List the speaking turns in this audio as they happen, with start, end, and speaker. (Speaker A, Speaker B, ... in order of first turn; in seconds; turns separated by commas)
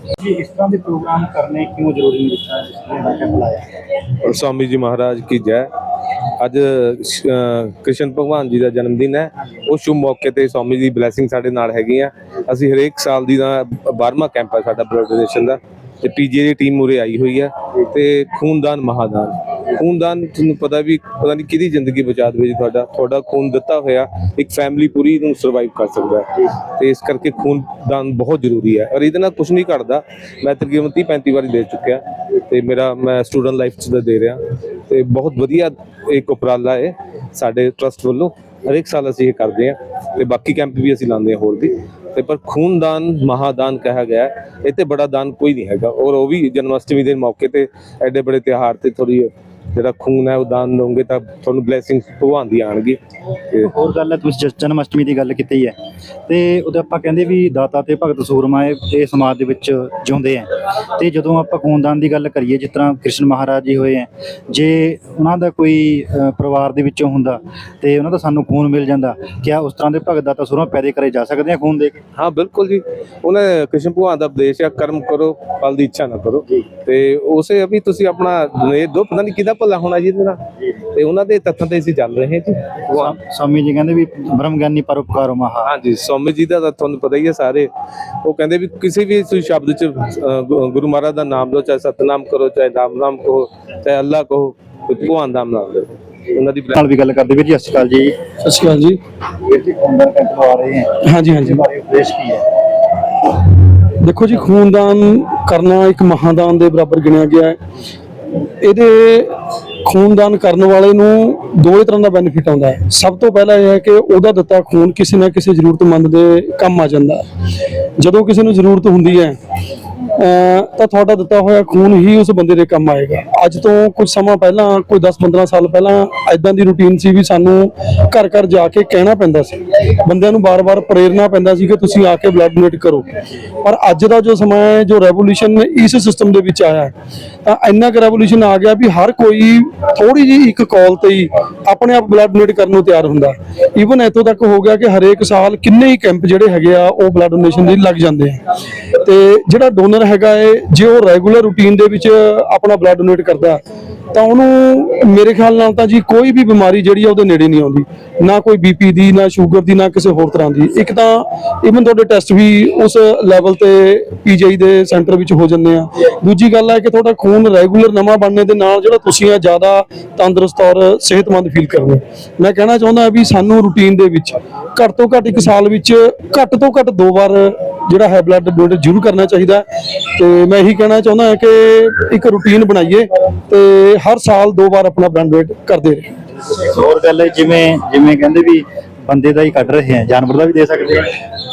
Speaker A: 0.2-3.7, Speaker B: 4.2-5.7, Speaker B: 6.4-53.0, Speaker A: 53.6-55.8, Speaker A: 56.3-72.0, Speaker B: 72.2-80.4, Speaker B: 80.9-83.2, Speaker A: 82.9-85.7, Speaker B: 85.6-87.7, Speaker B: 88.2-96.8, Speaker A: 96.7-98.2, Speaker C: 98.4-99.0, Speaker A: 99.4-102.5, Speaker C: 101.0-101.6, Speaker C: 104.0-107.6, Speaker C: 108.6-109.3, Speaker C: 109.8-117.2, Speaker C: 118.0-119.4, Speaker C: 120.2-133.0, Speaker C: 133.6-136.9, Speaker C: 137.4-148.4, Speaker C: 149.0-153.6, Speaker C: 154.1-179.6, Speaker C: 180.2-186.1, Speaker A: 186.5-191.2